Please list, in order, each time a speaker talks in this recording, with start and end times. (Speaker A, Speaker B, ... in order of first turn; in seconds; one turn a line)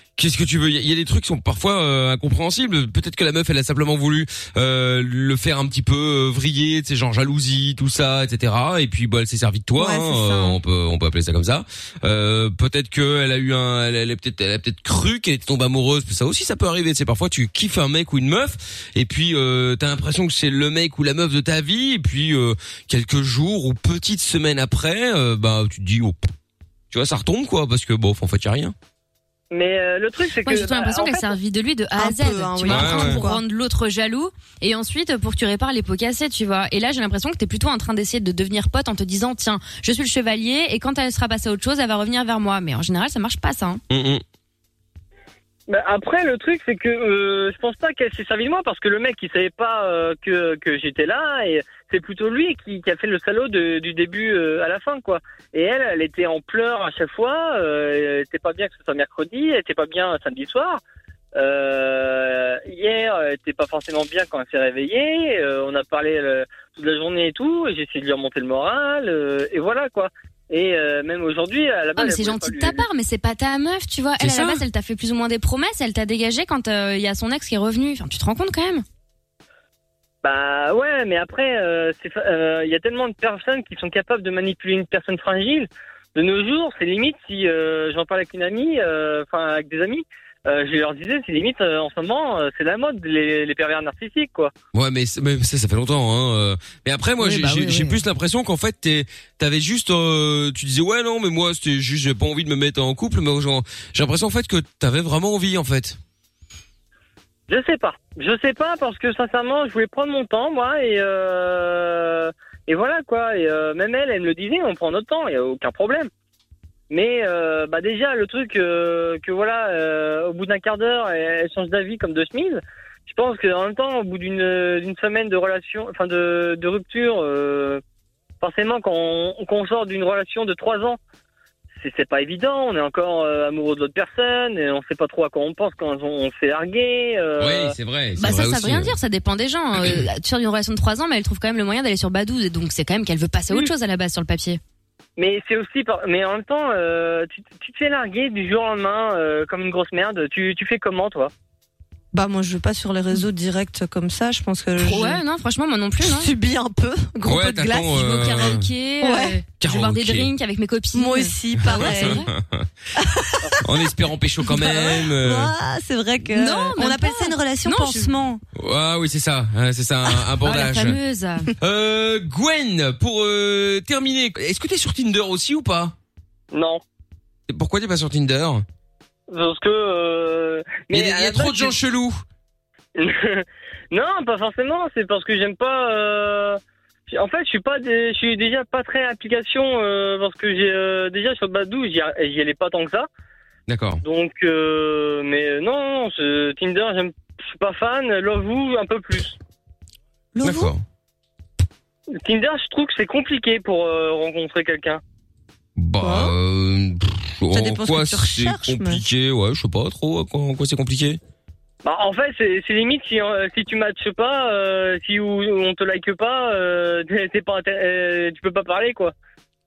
Speaker A: 0.1-26.2
Speaker B: 9.8-10.6
Speaker A: 26.9-28.8
Speaker C: 29.5-31.3
Speaker D: 30.4-43.8
Speaker B: 31.9-33.4
Speaker A: 32.6-33.2
Speaker A: 43.9-44.2
Speaker C: 45.7-60.8
Speaker C: 61.3-72.9
Speaker D: 72.0-78.8
Speaker A: 74.2-74.6
Speaker C: 80.2-94.5
Speaker A: 94.7-106.0
Speaker B: 97.2-98.0
Speaker C: 107.5-116.1
Speaker C: 116.9-127.8
Speaker C: 128.4-131.0
Speaker C: 131.8-137.8
Speaker A: 137.4-139.0
Speaker D: 138.2-144.6
Speaker C: 145.2-151.3
Speaker B: 152.1-155.2
Speaker D: 154.8-156.3
Speaker B: 156.0-157.9
Speaker A: 157.2-158.7
Speaker D: 157.7-162.3
Speaker B: 159.0-159.4
Speaker A: 159.6-160.3
Speaker B: 160.9-162.2
Speaker A: 161.7-162.7
Speaker B: 163.0-163.7
Speaker A: 163.6-165.5
Speaker B: 164.5-168.4
Speaker D: 166.3-168.1
Speaker A: 168.6-171.0
Speaker D: 170.4-171.5
Speaker A: 171.6-175.9
Speaker C: 176.5-176.8
Speaker A: 177.5-178.6
Speaker C: 179.3-181.8
Speaker A: 180.9-182.2
Speaker C: 183.0-193.1
Speaker A: 193.7-194.0
Speaker C: 194.0-199.4
Speaker B: 200.4-200.7
Speaker A: 200.4-200.8
Speaker C: 202.2-205.0
Speaker A: 205.8-211.2
Speaker B: 206.0-206.4
Speaker B: 207.5-209.0
Speaker C: 211.8-219.1